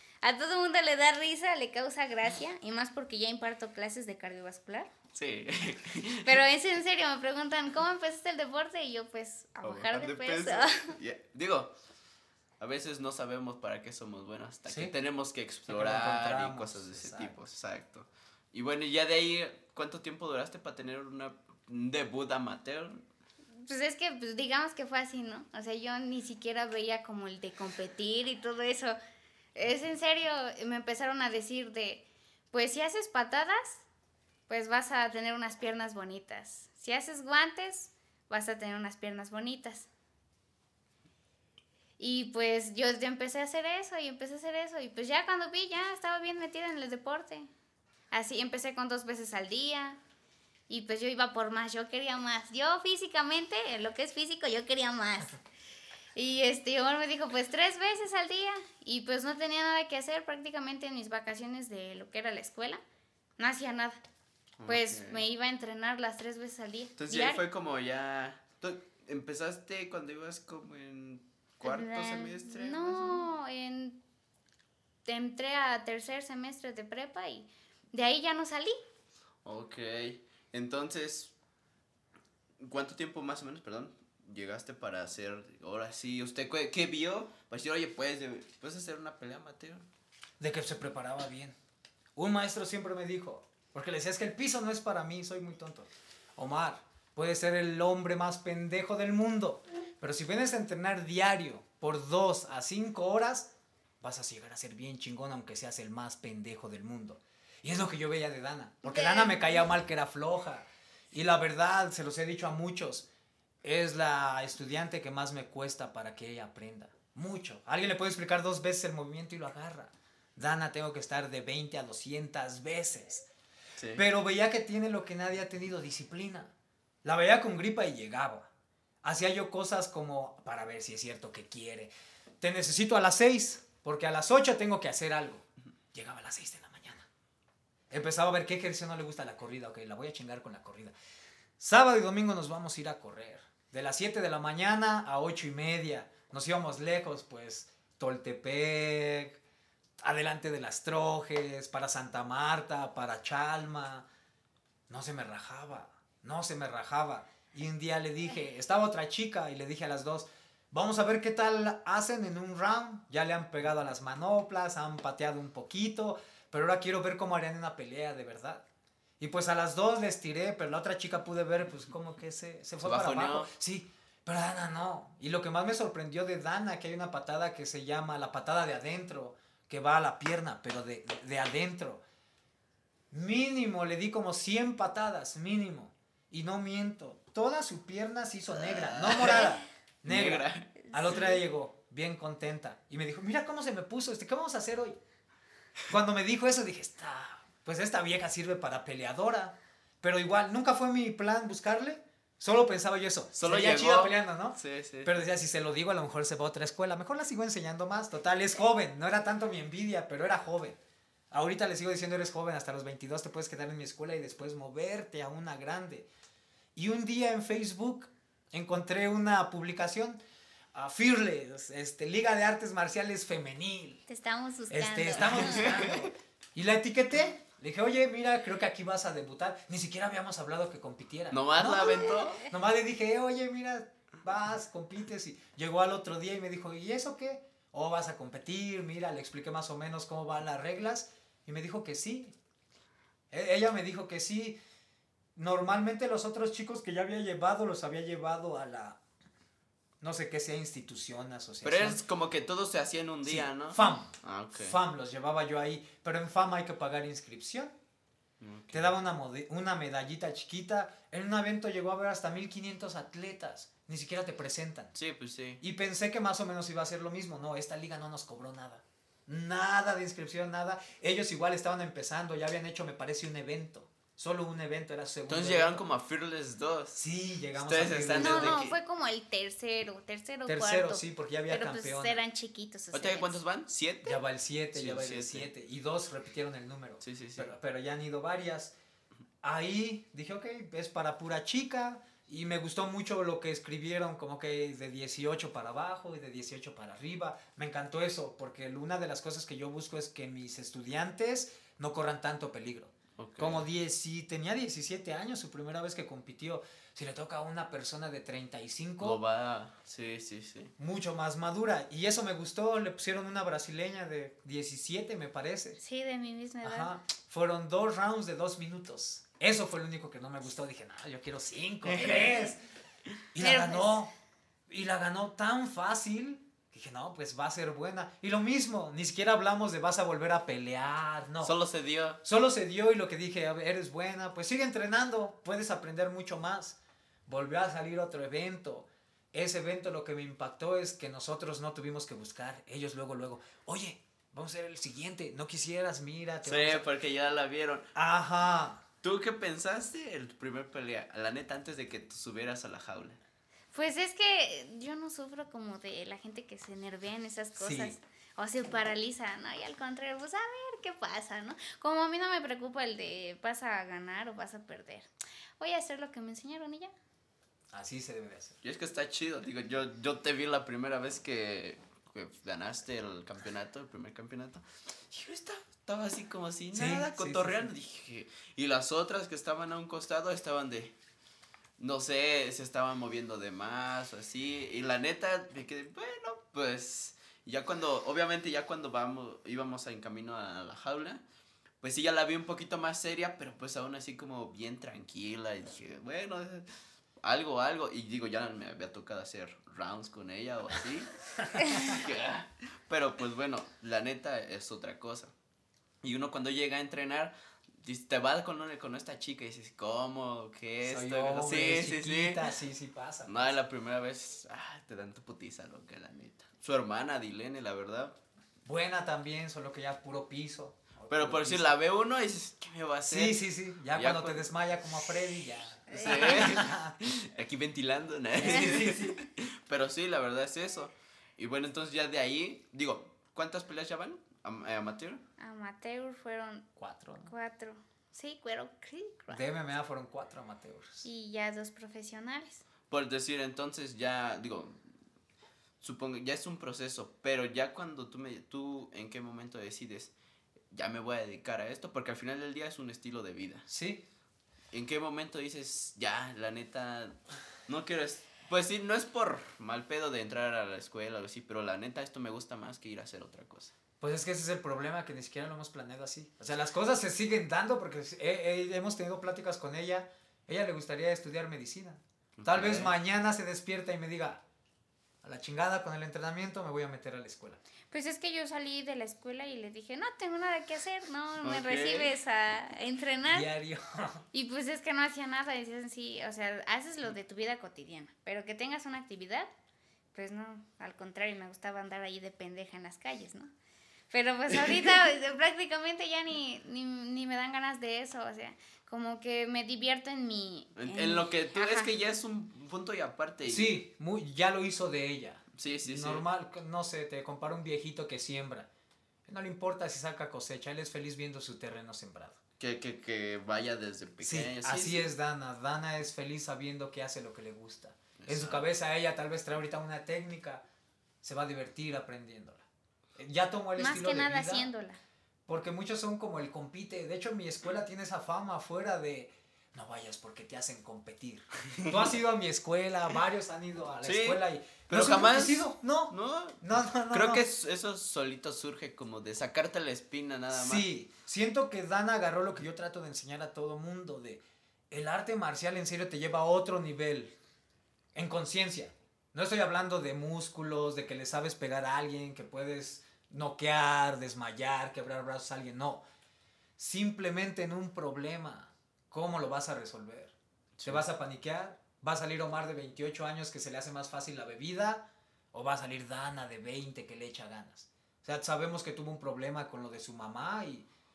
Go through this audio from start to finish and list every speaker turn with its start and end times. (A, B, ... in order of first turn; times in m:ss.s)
0:00.2-0:04.9 A
0:05.1-0:06.4 B
0:06.2-0:11.0 A
0:09.6-0:11.7 B
0:12.6-0:23.0 B
0:14.7-0:14.9 C
0:15.7-0:17.4 C
0:23.5-0:29.0 A
0:29.5-0:33.8 A
0:34.5-0:39.9 A
0:42.0-0:47.5 A
0:48.1-0:50.0 A
0:50.7-0:55.4 A
0:56.1-1:02.8 A
1:03.4-1:04.0 A
1:04.6-1:05.2 B
1:04.7-1:07.4 A
1:07.0-1:13.3 B
1:11.6-1:14.0 A
1:15.0-1:18.8 A
1:19.4-1:21.3 B
1:22.6-1:29.8 B
1:30.4-1:31.6 C
1:32.2-1:53.1 C
1:48.8-1:49.5 A
1:53.6-2:03.3 C
2:03.8-2:04.0 B
2:04.0-2:06.5 C
2:07.0-2:08.5 C
2:09.0-2:17.1 C
2:17.9-2:20.9 C
2:21.6-2:29.4 C
2:30.0-2:34.1 C
2:34.9-2:48.6 C
2:49.2-3:02.0 C
2:52.8-2:53.5 B
3:03.1-3:15.0 C
3:08.6-3:09.5 B
3:10.0-3:10.7 B
3:10.9-3:11.3 A
3:15.9-3:30.8 C
3:23.3-3:25.1 B
3:31.3-3:36.1 C
3:36.7-3:40.2 C
3:40.7-3:44.0 C
3:44.1-3:45.8 A
3:44.7-4:02.3 C
3:45.3-3:45.9 B
3:51.3-3:52.4 B
4:03.3-4:04.6 C
4:05.3-4:09.0 C
4:10.0-4:12.0 C
4:11.6-4:14.8 B
4:13.2-4:17.7 C
4:18.4-4:18.9 B
4:18.7-4:25.0 C
4:25.0-4:25.6 B
4:25.6-4:35.8 C
4:35.3-4:37.0 B
4:36.9-4:38.7 C
4:37.5-4:38.8 B
4:38.2-4:43.4 A
4:40.4-4:42.2 C
4:42.9-4:44.2 B
4:44.0-4:48.7 C
4:44.7-4:45.5 B
4:47.0-4:47.5 B
4:49.4-5:09.2 C
5:03.2-5:03.7 B
5:09.0-5:10.7 B
5:10.8-5:15.8 C
5:15.8-5:16.9 A
5:16.6-5:22.6 C
5:21.8-5:22.2 B
5:22.0-5:22.5 A
5:23.3-5:24.1 C
5:23.4-5:24.1 A
5:24.7-5:31.6 C
5:31.4-5:32.2 B
5:32.2-5:46.9 C
5:46.4-5:47.9 B
5:47.9-5:48.8 C
5:49.0-5:53.2 B
5:53.7-6:06.9 A
5:57.6-5:57.9 C
6:07.7-6:08.6 C
6:08.6-6:20.9 B
6:16.7-6:17.7 C
6:21.8-6:31.2 B
6:31.8-6:36.6 B
6:37.2-6:45.3 B
6:41.4-6:42.0 C
6:46.0-6:52.4 B
6:50.8-6:53.6 C
6:53.3-6:58.2 B
6:58.6-7:01.7 C
7:01.1-7:03.4 B
7:03.1-7:07.0 C
7:03.9-7:04.5 B
7:05.9-7:06.5 A
7:05.9-7:15.2 B
7:08.4-7:09.2 C
7:15.4-7:16.7 A
7:16.8-7:17.3 C
7:17.2-7:19.4 A
7:19.3-7:21.0 C
7:21.0-7:22.6 A
7:22.9-7:24.8 B
7:25.8-7:30.1 B
7:30.7-7:33.7 B
7:33.7-7:34.0 C
7:34.7-7:43.7 B
7:44.0-7:54.4 C
7:52.4-7:52.9 B
7:55.2-7:57.6 C
7:57.9-8:03.5 A
8:01.4-8:02.1 B
8:03.3-8:04.2 C
8:04.3-8:09.5 A
8:10.1-8:13.5 A
8:14.1-8:21.9 A
8:20.8-8:23.8 B
8:23.4-8:28.7 C
8:25.6-8:26.2 B
8:29.3-8:32.4 C
8:32.6-8:35.1 B
8:34.2-8:40.6 C
8:38.2-8:38.6 B
8:41.2-8:42.6 C
8:43.2-8:44.7 C
8:43.8-8:45.0 A
8:45.5-8:57.4 C
8:51.7-8:52.0 B
8:54.0-9:00.8 B
9:00.5-9:07.3 C
9:08.1-9:16.0 C
9:16.8-9:20.3 C
9:20.8-9:21.0 B
9:20.8-9:30.9 C